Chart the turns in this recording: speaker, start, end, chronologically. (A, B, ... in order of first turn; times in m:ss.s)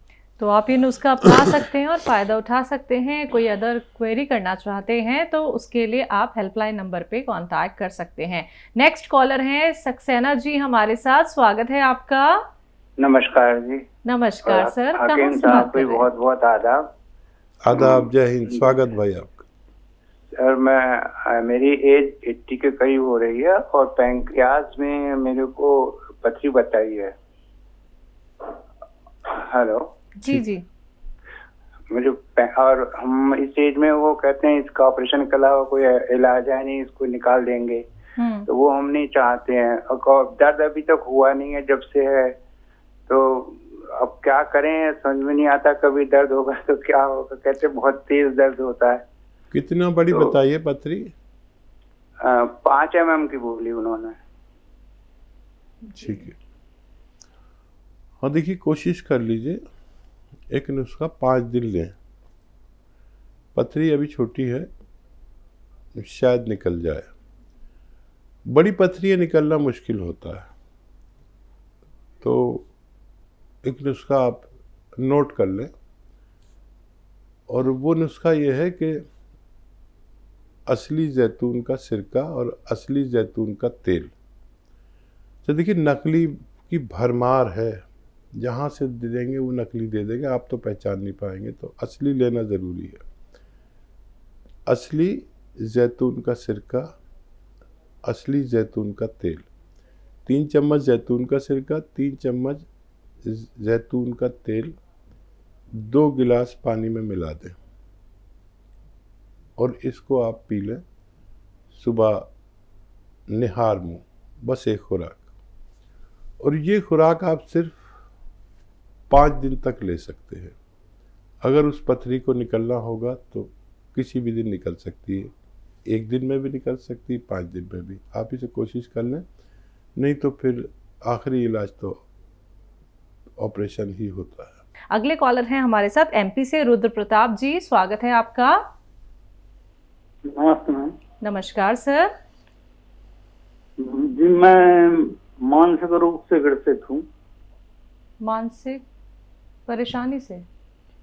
0:00.4-0:12.4 A
0:13.0-0:13.8 B
0:14.0-0:16.1 A
0:14.4-0:16.8 B
0:17.6-0:19.4 C
0:17.7-0:18.7 B
0:20.4-0:27.1 B
0:29.4-0:29.9 B
0:30.2-0:30.6 A
0:31.9-0:37.8 B
0:38.2-0:38.5 A
0:38.5-0:42.3 B
0:43.1-0:49.0 B
0:49.5-0:51.1 C
0:52.2-0:54.2 B
0:56.0-0:56.3 C
0:58.2-0:59.6 C
1:00.5-1:02.0 C
1:03.5-1:04.7 C
1:06.0-1:07.1 C
1:08.5-1:10.5 C
1:12.2-1:12.7 C
1:13.6-1:15.7 C
1:17.5-1:19.0 C
1:20.7-1:24.1 C
1:25.4-1:27.8 C
1:28.4-1:33.0 C
1:34.7-1:36.9 C
1:38.0-1:39.5 C
1:40.2-1:42.6 C
1:43.2-1:44.7 C
1:45.7-1:47.6 C
1:49.6-1:50.8 C
1:51.7-1:52.3 C
1:53.3-1:55.2 C
1:56.4-1:57.8 C
1:59.1-2:00.5 C
2:01.4-2:05.3 C
2:05.9-2:09.2 C
2:10.0-2:12.0 C
2:13.4-2:14.6 C
2:14.9-2:18.6 A
2:20.3-2:20.9 D
2:21.2-2:22.1 A
2:23.8-2:27.0 D
2:28.2-2:28.8 A
2:29.7-2:30.4 A